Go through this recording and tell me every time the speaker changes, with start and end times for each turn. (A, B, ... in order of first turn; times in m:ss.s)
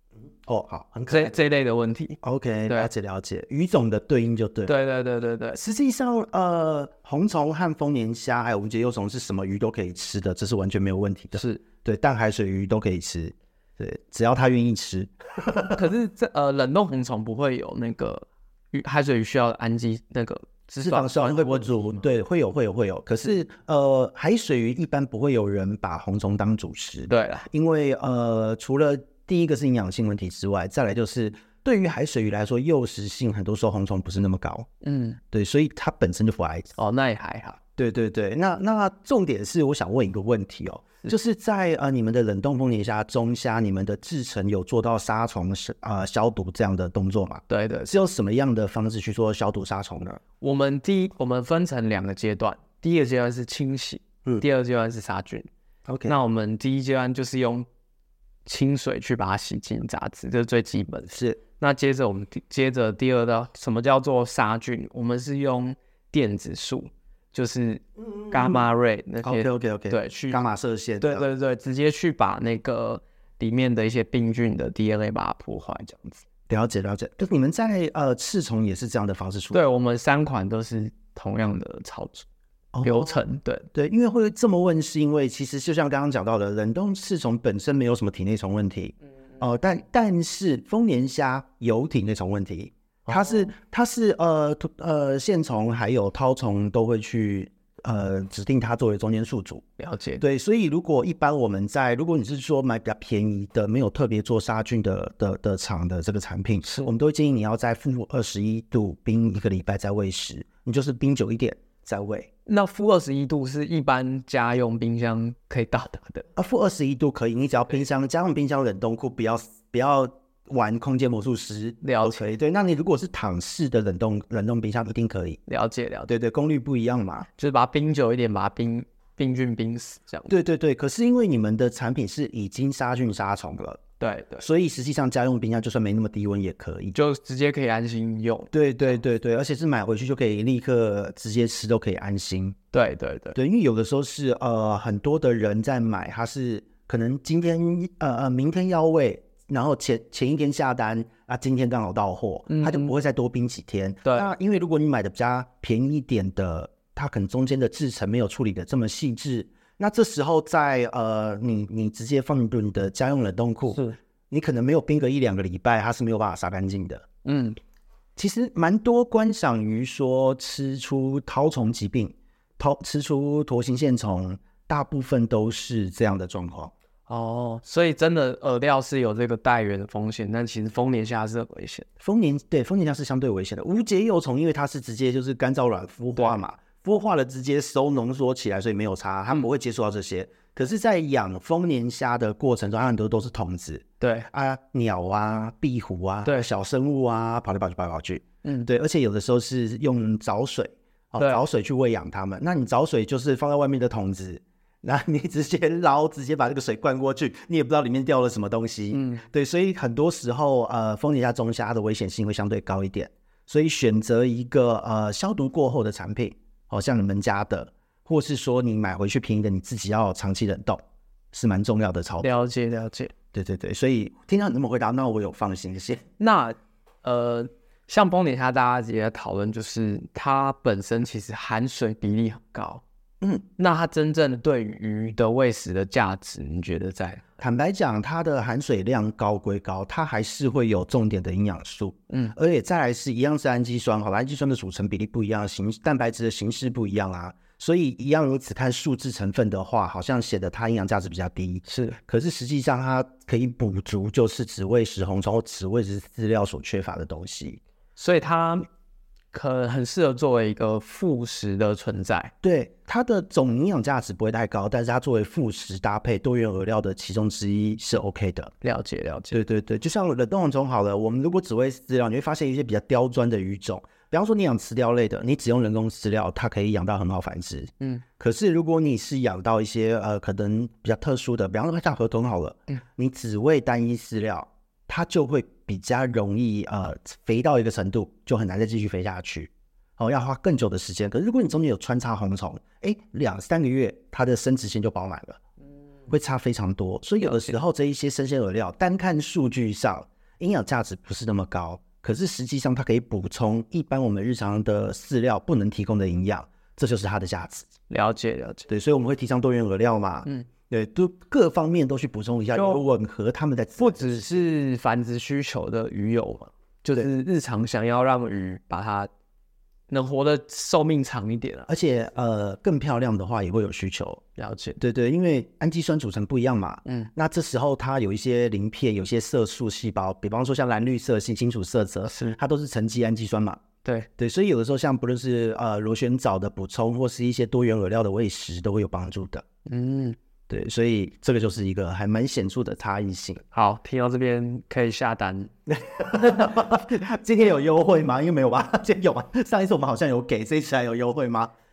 0:00.4-0:01.3 A
0:01.1-0:02.9 B
0:02.2-0:04.7 A
0:04.6-0:05.6 B
0:05.6-0:15.8 A
0:11.3-0:11.6 B
0:15.7-0:22.0 B
0:20.8-0:34.7 A
0:27.1-0:27.5 B
0:34.8-0:35.2 B
0:35.3-0:36.7 A
0:36.8-0:37.6 B
0:37.8-0:50.2 A
0:47.5-0:47.9 B
0:50.4-0:55.5 B
0:55.9-0:56.1 A
0:56.1-0:57.7 B
0:58.4-1:10.4 B
1:01.1-1:01.4 A
1:08.0-1:08.6 A
1:09.2-1:11.2 A
1:11.0-1:16.2 B
1:16.5-1:19.6 A
1:19.5-1:22.2 B
1:22.7-1:23.1 A
1:22.8-1:23.7 B
1:23.7-1:39.6 A
1:33.1-1:33.5 B
1:39.8-1:40.2 B
1:40.2-1:52.3 A
1:46.6-1:46.9 B
1:52.5-1:56.3 B
1:56.4-2:05.4 A
2:01.8-2:02.2 B
2:05.5-2:06.1 B
2:06.1-2:07.3 A
2:07.4-2:10.3 B
2:10.3-2:13.8 A
2:14.0-2:14.5 B
2:14.4-2:17.0 A
2:16.9-2:18.5 B
2:18.5-2:22.6 A
2:22.7-2:23.4 B
2:23.4-2:47.0 A
2:32.5-2:32.9 B
2:34.0-2:34.3 B
2:43.7-2:44.0 B
2:47.2-2:47.6 B
2:48.2-2:56.7 A
2:57.1-3:01.9 B
3:02.0-3:42.3 A
3:14.0-3:14.3 B
3:18.4-3:18.7 B
3:28.9-3:29.2 B
3:42.2-3:43.1 B
3:43.3-3:46.0 A
3:46.2-3:52.8 B
3:53.6-3:57.2 B
3:57.4-4:17.6 A
4:02.1-4:02.4 B
4:11.7-4:12.0 B
4:18.0-4:18.6 B
4:19.3-4:22.3 B
4:22.4-4:28.5 A
4:28.6-4:29.4 B
4:29.3-4:55.4 A
4:56.1-5:07.7 A
4:57.2-4:57.5 B
5:07.9-5:08.7 B
5:08.7-5:14.4 A
5:12.5-5:12.8 B
5:13.8-5:19.1 B
5:19.9-5:21.7 B
5:21.7-5:24.2 A
5:24.4-5:24.8 B
5:24.8-5:33.6 A
5:26.8-5:27.1 B
5:32.1-5:32.4 B
5:34.2-5:39.4 A
5:39.6-5:40.2 B
5:40.5-5:43.4 A
5:43.5-5:45.5 B
5:45.7-5:51.5 A